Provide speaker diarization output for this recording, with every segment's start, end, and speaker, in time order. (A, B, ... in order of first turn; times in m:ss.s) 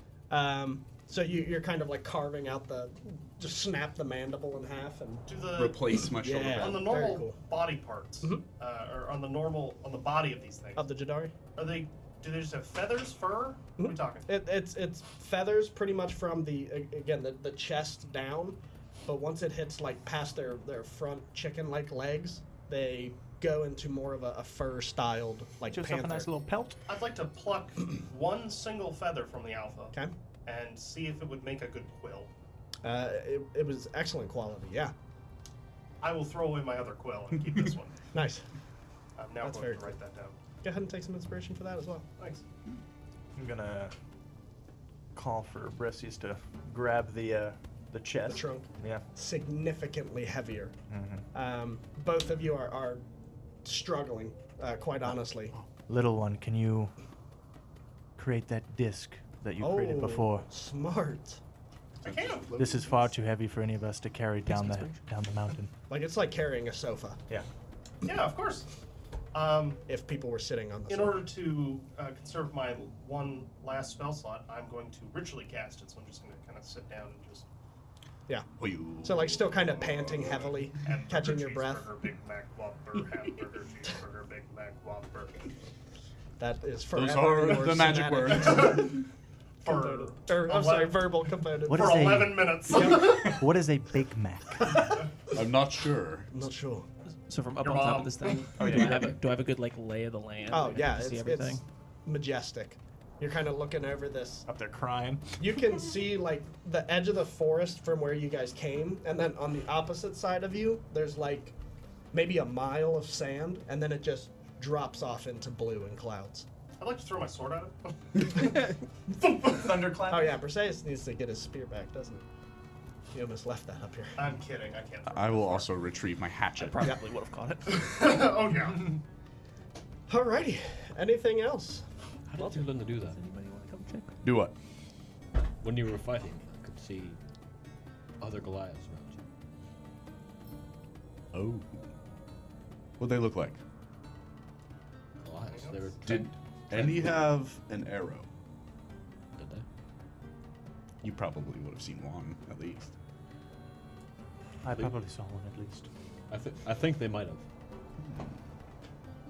0:00.3-0:05.3 A
0:05.3-0:10.9 B
0:05.6-0:06.8 C
0:06.1-0:07.4 A
0:10.8-0:11.4 A
0:11.6-0:14.3 B
0:13.8-0:26.3 A
0:25.7-0:26.8 D
0:26.9-0:32.3 B
0:32.8-0:34.9 A
0:36.0-0:38.0 B
0:38.1-0:38.5 A
0:39.2-0:40.4 B
0:39.4-0:40.0 A
0:40.6-0:42.1 A
0:42.2-0:42.4 B
0:43.4-0:43.9 D
0:45.2-0:49.0 D
0:48.3-0:50.8 A
0:50.9-0:51.2 D
0:51.3-0:53.1 A
0:53.6-0:55.6 A
0:55.9-0:56.9 D
0:58.2-1:00.5 D
0:59.6-1:01.4 A
1:02.0-1:02.5 B
1:02.0-1:03.1 C
1:02.6-1:05.7 D
1:04.5-1:05.0 E
1:05.9-1:07.2 A
1:08.0-1:08.7 B
1:09.3-1:09.8 B
1:09.9-1:11.3 A
1:10.9-1:17.5 B
1:18.6-1:20.4 C
1:19.0-1:21.9 A
1:20.1-1:25.5 B
1:26.4-1:29.0 A
1:26.9-1:28.8 C
1:28.3-1:29.0 B
1:29.6-1:31.1 B
1:29.6-1:32.2 A
1:31.7-1:34.9 D
1:31.7-1:33.4 B
1:35.3-1:36.3 C
1:36.3-1:36.9 A
1:37.3-1:41.6 E
1:37.6-1:38.6 B
1:38.6-1:39.1 D
1:40.5-1:44.5 A
1:44.5-1:45.3 D
1:45.4-1:51.6 A
1:52.1-1:56.5 A
1:56.8-1:58.7 B
1:59.2-1:59.7 B
1:59.4-2:00.4 D
2:00.1-2:02.2 A
2:03.1-2:04.2 A
2:04.2-2:05.7 B
2:05.1-2:06.9 C
2:06.6-2:07.9 E
2:07.7-2:09.0 B
2:10.1-2:11.8 A
2:12.3-2:14.1 E
2:12.4-2:13.2 F
2:14.2-2:14.5 C
2:15.6-2:17.2 F
2:18.2-2:19.2 F
2:21.3-2:21.9 C
2:23.0-2:23.6 C
2:25.2-2:26.3 F
2:25.5-2:26.0 B
2:26.0-2:28.3 C
2:29.4-2:29.6 F
2:31.0-2:33.0 C
2:34.6-2:35.9 D
2:36.3-2:37.4 F
2:38.0-2:38.4 C